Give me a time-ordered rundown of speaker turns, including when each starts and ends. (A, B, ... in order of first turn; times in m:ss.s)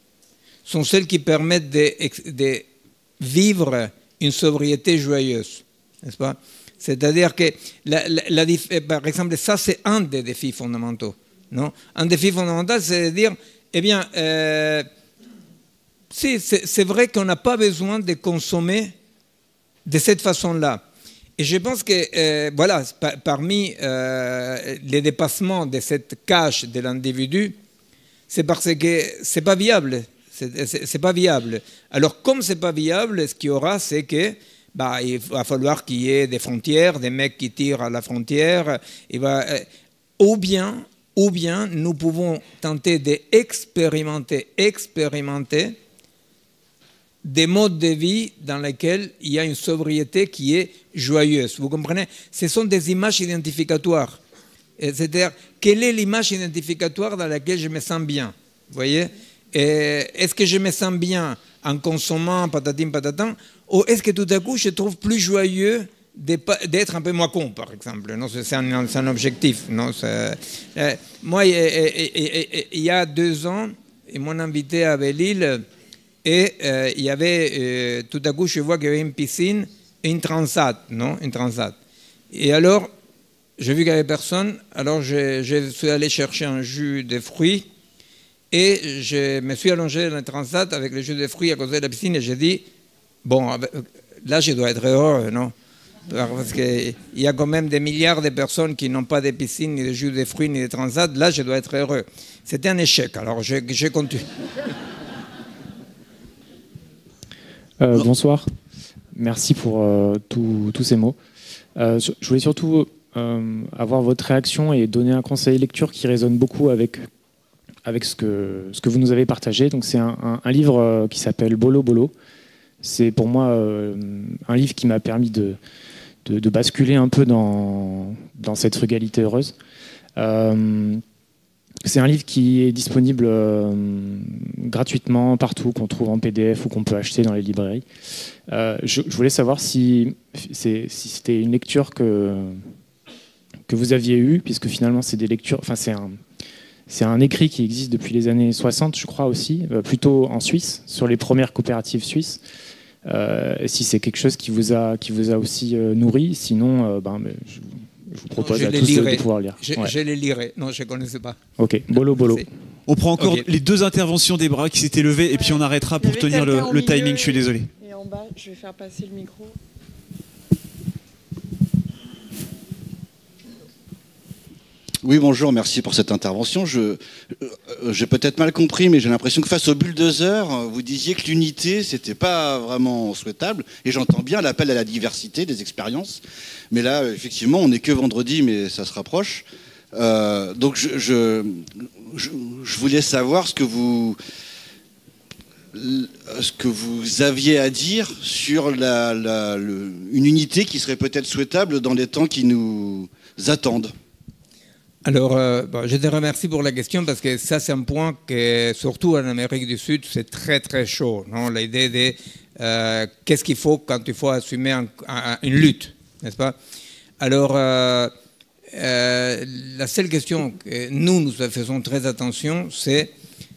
0:00.7-0:02.7 A
0:03.2-0:14.9 A
0:16.1-0:18.9 A
0:19.9-0:20.8 A
0:21.4-0:27.6 A
0:28.3-0:39.7 A
0:40.2-0:45.8 A
0:47.2-0:54.2 A
0:54.8-1:15.6 A
1:16.2-1:21.8 A
1:22.3-1:22.9 A
1:23.6-1:27.7 A
1:28.5-1:32.7 A
1:33.2-1:35.5 A
1:36.1-1:44.2 A
1:47.8-1:48.5 B
1:49.1-1:51.2 B
1:51.8-1:57.1 B
1:57.8-2:02.1 B
2:02.8-2:05.6 B
2:06.3-2:09.6 B
2:10.2-2:11.0 B
2:11.8-2:17.9 B
2:18.5-2:22.7 B
2:23.7-2:26.2 B
2:26.9-2:32.4 B
2:33.1-2:39.9 B
2:38.4-2:41.4 A
2:41.6-2:42.5 B
2:42.2-2:42.5 A
2:42.9-2:47.7 C
2:43.2-2:43.4 A
2:45.3-2:49.6 D
2:55.0-3:06.2 E
3:06.7-3:14.2 E
3:15.7-3:23.9 E
3:25.0-3:36.6 A
3:37.2-3:38.1 A
3:38.7-3:43.1 A